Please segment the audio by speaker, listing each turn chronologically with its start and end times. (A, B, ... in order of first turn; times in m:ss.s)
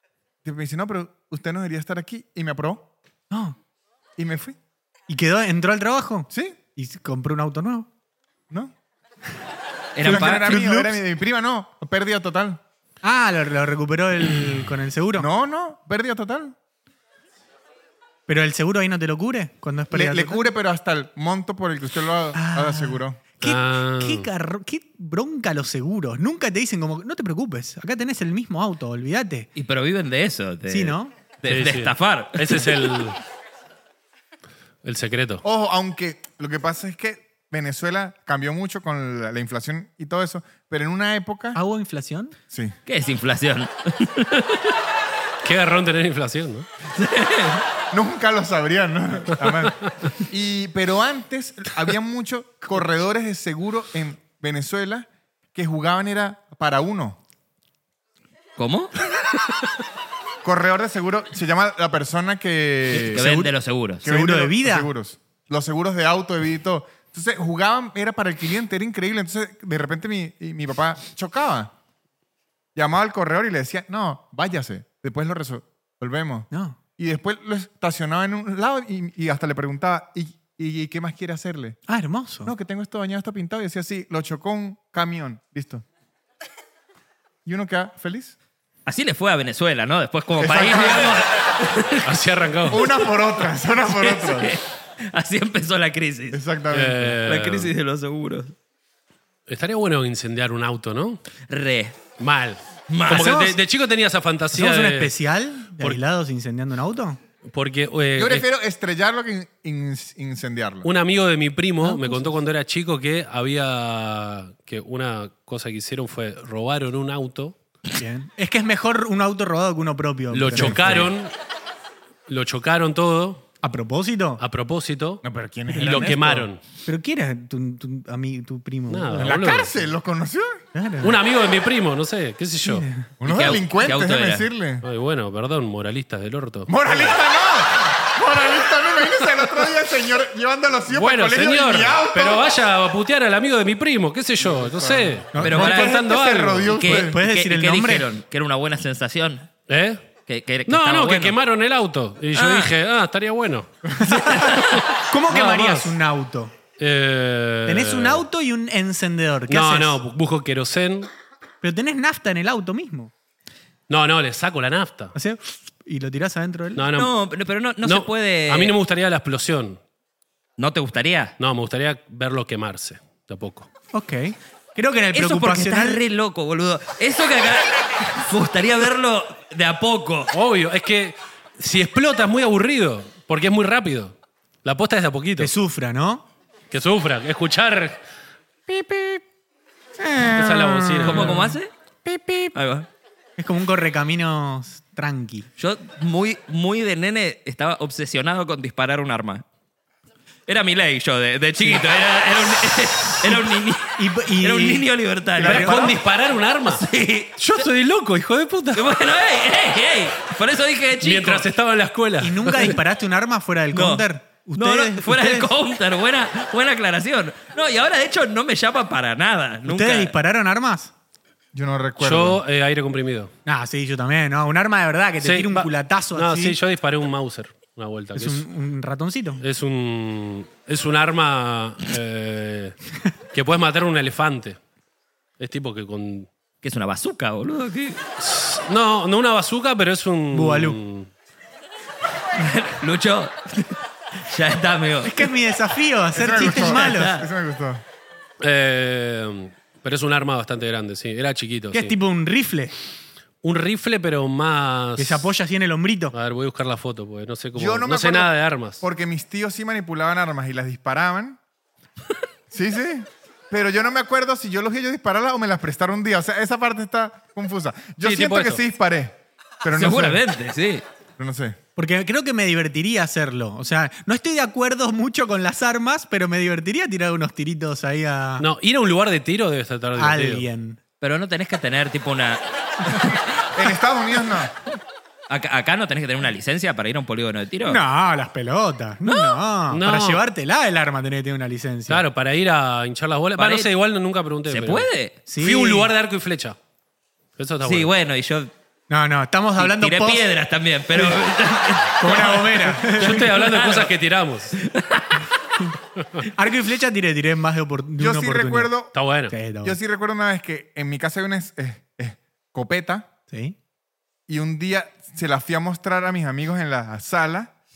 0:00.4-0:02.9 A
0:03.3-0:03.6 B
0:04.2-0:04.6 A
0:05.1-0:07.9 B
0:06.3-0:06.6 A
0:09.9-0:10.4 C
0:10.0-0:12.6 A
0:10.0-0:11.0 B
0:13.0-0:15.3 B
0:15.2-0:16.6 A
0:18.3-0:20.4 B
0:19.9-0:23.2 A
0:22.3-0:29.5 B
0:23.4-0:24.3 D
0:29.6-0:32.9 C
0:30.7-0:31.1 B
0:31.5-0:33.2 D
0:34.8-0:35.4 D
0:35.4-0:41.6 A
0:41.5-0:42.3 B
0:42.8-0:44.6 C
0:45.4-0:46.7 D
0:46.9-0:47.6 C
0:47.9-0:57.2 A
0:58.6-0:58.9 C
1:00.4-1:03.3 A
1:02.9-1:04.0 C
1:03.1-1:03.5 B
1:04.0-1:04.9 B
1:04.0-1:11.7 A
1:12.7-1:21.8 A
1:16.5-1:16.8 B
1:21.9-1:22.5 B
1:22.4-1:25.8 A
1:27.4-1:28.4 A
1:28.8-1:32.1 C
1:30.4-1:31.2 A
1:32.0-1:32.8 D
1:32.7-1:34.6 A
1:33.9-1:36.4 C
1:36.3-1:37.2 A
1:36.7-1:37.7 D
1:37.2-1:38.5 C
1:39.5-1:41.2 D
1:41.5-1:42.0 C
1:42.2-1:45.1 D
1:42.9-1:43.4 C
1:43.1-1:43.6 B
1:44.5-1:47.2 B
1:47.4-1:48.4 D
1:48.2-1:50.9 A
1:50.8-1:57.6 D
1:51.8-1:52.4 B
1:57.9-2:01.1 B
2:00.3-2:01.3 D
2:00.5-2:00.8 A
2:02.3-2:03.4 D
2:03.6-2:04.4 B
2:04.4-2:05.2 D
2:05.2-2:06.4 A
2:05.7-2:06.6 D
2:05.8-2:09.3 B
2:08.9-2:09.7 D
2:09.1-2:10.6 A
2:10.7-2:11.2 B
2:11.0-2:12.8 D
2:12.6-2:13.1 B
2:13.2-2:14.8 A
2:13.2-2:14.5 C
2:14.8-2:17.1 D
2:16.7-2:22.6 A
2:20.9-2:27.0 D
2:24.4-2:27.2 A
2:25.3-2:25.6 B
2:25.4-2:26.0 C
2:26.7-2:29.5 C
2:26.9-2:28.1 B
2:29.7-2:30.0 D
2:30.3-2:31.4 C
2:30.7-2:36.0 D
2:32.3-2:32.7 C
2:34.0-2:34.5 B
2:34.0-2:34.8 C
2:35.1-2:36.5 B
2:36.8-2:38.2 D
2:37.6-2:40.0 B
2:39.5-2:41.1 D
2:41.6-2:43.1 B
2:43.9-2:45.1 D
2:45.1-2:46.8 B
2:46.8-2:47.1 D
2:46.9-2:48.7 C
2:47.8-2:49.8 D
2:50.6-2:51.3 C
2:51.4-2:53.7 D
2:53.9-2:56.0 B
2:55.1-3:00.3 C
3:00.3-3:05.5 D
3:05.4-3:06.2 B
3:06.7-3:08.0 D
3:08.7-3:09.1 D
3:08.8-3:09.2 B
3:10.0-3:12.5 B
3:10.2-3:11.5 D
3:11.0-3:11.7 C
3:12.5-3:12.9 C
3:13.4-3:15.5 B
3:15.6-3:19.4 C
3:20.5-3:26.0 C
3:24.0-3:26.0 B
3:25.4-3:26.8 D
3:26.6-3:27.6 C
3:27.4-3:28.9 D
3:28.7-3:31.5 C
3:31.0-3:32.8 D
3:32.2-3:35.5 B
3:33.7-3:40.1 C
3:39.6-3:40.9 B
3:41.5-3:42.4 A
3:42.0-3:43.3 D
3:43.4-3:46.6 B
3:45.2-3:48.4 D
3:48.1-3:49.4 B
3:49.4-3:52.8 D
3:53.3-3:54.6 D
3:55.4-3:56.3 D
3:56.6-3:58.0 C
3:58.2-4:01.1 D
4:00.3-4:00.8 B
4:02.4-4:05.3 C
4:05.0-4:07.2 B
4:06.1-4:07.8 A
4:06.7-4:07.2 C
4:08.4-4:12.0 D
4:11.7-4:12.7 B
4:13.4-4:15.3 D
4:15.0-4:16.1 B
4:16.1-4:18.8 D
4:17.5-4:21.4 A
4:22.5-4:30.2 A
4:28.0-4:28.6 D
4:29.7-4:30.8 C
4:31.2-4:31.6 A
4:31.8-4:38.4 B
4:38.4-4:40.4 D
4:40.0-4:40.8 B
4:41.0-4:43.5 C
4:43.5-4:44.5 A
4:45.3-4:47.8 C
4:47.7-4:52.0 B
4:49.0-4:49.4 C
4:49.7-4:50.2 D
4:51.9-4:56.6 D
4:53.4-4:53.7 C
4:54.4-4:55.2 C
4:55.3-4:55.9 B
4:57.4-4:57.9 D
4:57.6-4:58.5 C
4:58.9-5:00.2 B
4:59.6-5:03.9 C
5:00.9-5:01.2 B
5:02.0-5:03.3 B
5:02.8-5:04.6 D
5:04.6-5:05.2 C
5:06.0-5:06.2 D
5:06.3-5:08.7 B
5:08.0-5:08.9 A
5:08.9-5:09.3 D
5:09.3-5:09.8 B
5:09.6-5:13.1 A
5:13.3-5:13.6 B
5:14.3-5:17.5 A